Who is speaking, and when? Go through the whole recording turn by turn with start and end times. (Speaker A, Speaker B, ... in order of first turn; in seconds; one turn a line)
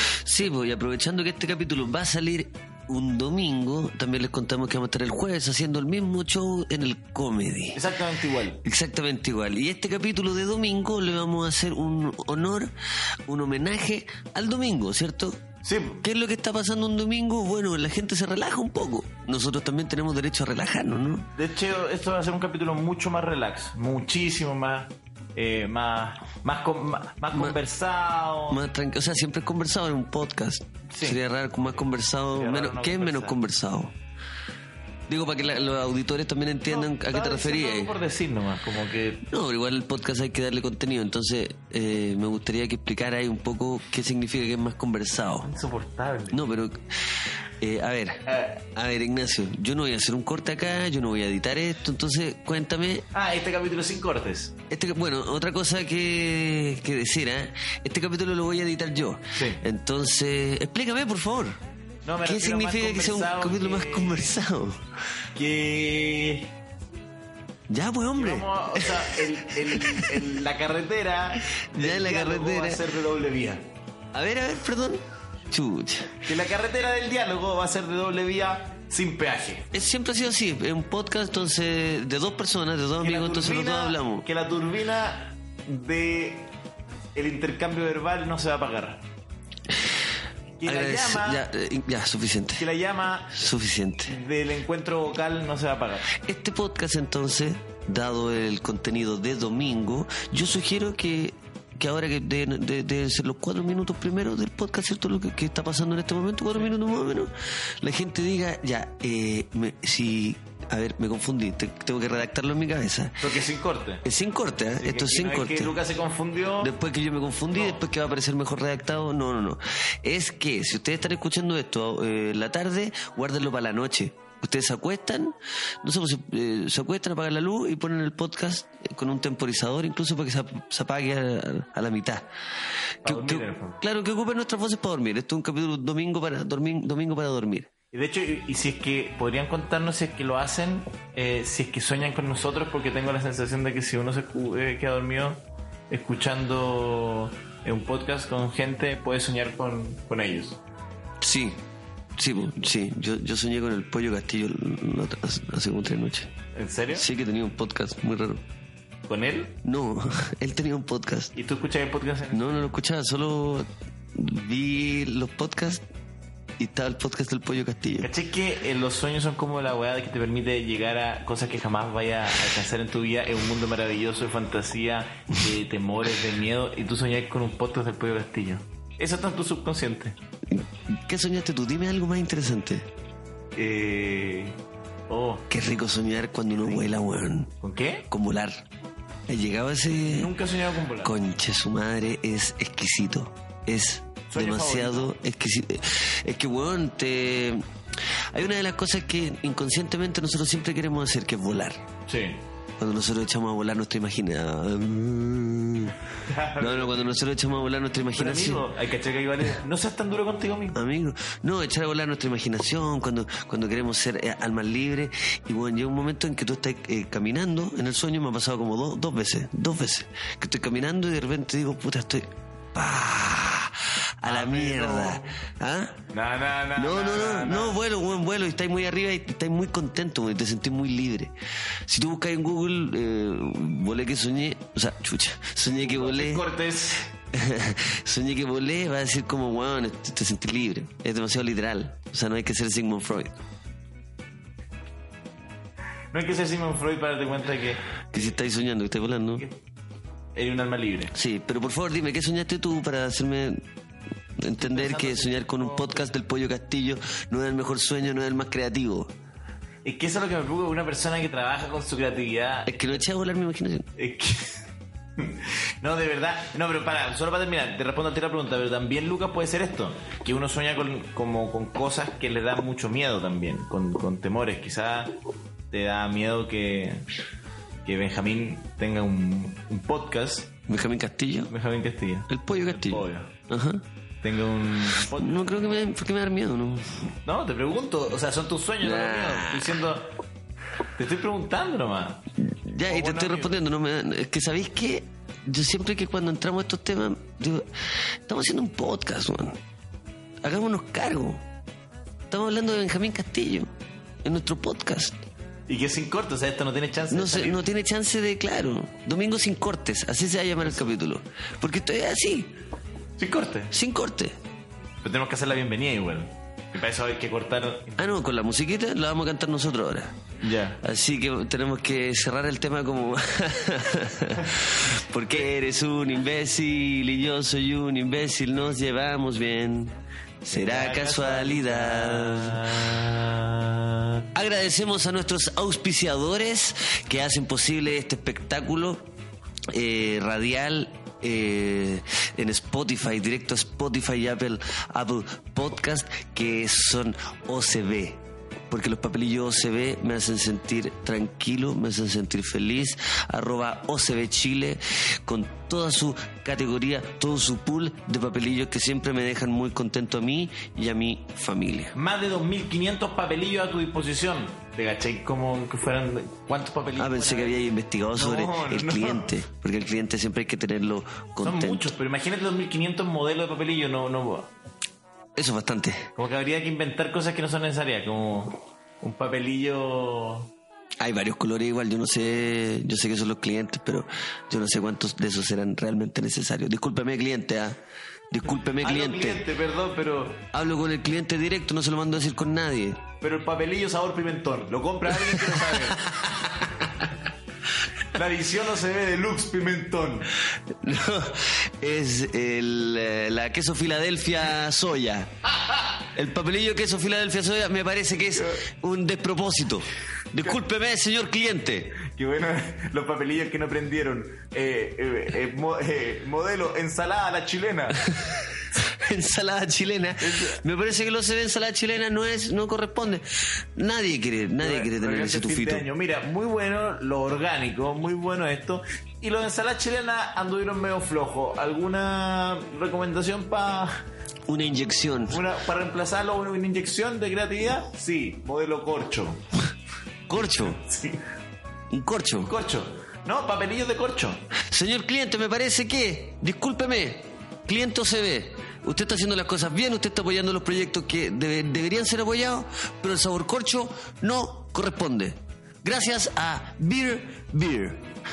Speaker A: 0.2-7.8
Speaker B: 7.7-8.6
Speaker A: 8.6-12.7
Speaker A: 13.3-15.4
Speaker B: 15.6-16.0
Speaker A: 16.0-21.3
Speaker B: 21.4-28.6
Speaker A: 28.5-33.9
Speaker B: 30.9-31.2
Speaker B: 32.3-33.4
Speaker A: 35.1-37.9
Speaker B: 36.6-39.2
Speaker A: 39.2-45.5
Speaker B: 45.4-46.4
Speaker A: 46.3-46.9
Speaker A: 47.6-53.0
Speaker B: 48.2-48.6
Speaker B: 53.1-54.5
Speaker A: 54.7-61.6
Speaker B: 59.4-59.6
Speaker B: 62.0-64.3
Speaker A: 62.2-64.8
Speaker B: 65.3-66.5
Speaker A: 67.7-70.2
Speaker B: 68.1-73.7
Speaker A: 71.6-72.8
Speaker A: 74.1-76.2
Speaker B: 76.2-79.7
Speaker A: 79.7-84.2
Speaker B: 83.0-86.5
Speaker B: 87.1-89.0
Speaker B: 90.6-91.5
Speaker A: 90.7-92.7
Speaker B: 92.6-93.5
Speaker A: 93.3-94.2
Speaker B: 94.0-96.1
Speaker A: 96.1-113.4
Speaker B: 113.2-114.0
Speaker A: 114.0-115.8
Speaker B: 114.7-116.7
Speaker A: 116.6-132.3
Speaker B: 117.5-117.8
Speaker A: 133.0-137.7
Speaker B: 133.0-133.8
Speaker B: 137.9-150.6
Speaker A: 151.2-151.6
Speaker A: 152.2-156.3
Speaker B: 156.5-157.1
Speaker A: 156.9-158.4
Speaker B: 159.1-159.6
Speaker A: 159.6-161.3
Speaker B: 161.3-162.7
Speaker A: 162.3-165.8
Speaker A: 166.6-168.1
Speaker B: 168.0-180.2
Speaker A: 180.5-182.9
Speaker B: 183.5-184.6
Speaker B: 185.1-185.4
Speaker A: 185.5-187.5
Speaker B: 186.5-186.9
Speaker B: 187.6-188.1
Speaker A: 188.1-188.6
Speaker A: 189.3-190.3
Speaker B: 190.1-191.1
Speaker A: 191.0-197.7
Speaker B: 194.3-195.1
Speaker A: 198.3-201.8
Speaker B: 202.1-202.4
Speaker A: 202.8-206.0
Speaker B: 206.2-207.1
Speaker A: 206.6-208.7
Speaker B: 208.1-210.8
Speaker A: 210.7-226.0
Speaker B: 224.2-225.3
Speaker B: 226.1-227.8
Speaker A: 226.8-231.3
Speaker A: 231.8-236.4
Speaker B: 235.7-237.1
Speaker A: 237.3-243.4
Speaker B: 246.1-248.3
Speaker A: 248.1-249.4
Speaker B: 250.3-251.1
Speaker A: 251.1-253.7
Speaker A: 254.4-259.1
Speaker B: 254.6-256.1
Speaker B: 259.8-263.0
Speaker A: 262.6-263.9
Speaker B: 263.9-264.6
Speaker B: 265.2-275.1
Speaker B: 275.7-277.1
Speaker B: 277.8-280.5
Speaker A: 280.7-281.5
Speaker B: 281.5-283.3
Speaker A: 282.3-283.8
Speaker B: 284.2-285.6
Speaker A: 285.0-287.1
Speaker B: 287.2-290.1
Speaker A: 288.8-289.8
Speaker B: 290.9-292.2
Speaker A: 292.4-297.7
Speaker B: 292.8-293.6
Speaker A: 298.2-299.6
Speaker A: 300.4-301.4
Speaker A: 302.3-305.2
Speaker B: 305.7-307.6
Speaker A: 307.1-312.5
Speaker B: 310.6-310.9
Speaker B: 313.2-313.7
Speaker A: 313.7-314.3
Speaker B: 315.0-318.1
Speaker A: 318.0-320.2
Speaker B: 320.4-320.8
Speaker A: 320.8-332.7
Speaker B: 325.2-325.5
Speaker B: 330.5-334.2
Speaker A: 334.3-339.0
Speaker A: 339.7-361.9
Speaker B: 361.9-369.4
Speaker A: 367.0-371.9
Speaker B: 371.4-374.5
Speaker A: 375.4-376.1
Speaker B: 376.1-380.5
Speaker A: 381.0-387.8
Speaker A: 388.3-389.4
Speaker B: 388.8-390.5
Speaker A: 390.5-393.0
Speaker B: 393.2-396.2
Speaker A: 395.2-396.5
Speaker B: 398.1-400.3
Speaker A: 400.7-405.3
Speaker A: 406.1-412.0
Speaker B: 408.3-408.6
Speaker B: 412.0-418.1
Speaker A: 418.0-425.8
Speaker B: 420.2-420.6
Speaker B: 424.6-434.0
Speaker A: 434.5-435.4
Speaker B: 435.3-439.4
Speaker A: 440.3-440.8
Speaker B: 440.3-441.2
Speaker A: 441.9-442.5
Speaker B: 442.4-444.4
Speaker A: 444.7-458.1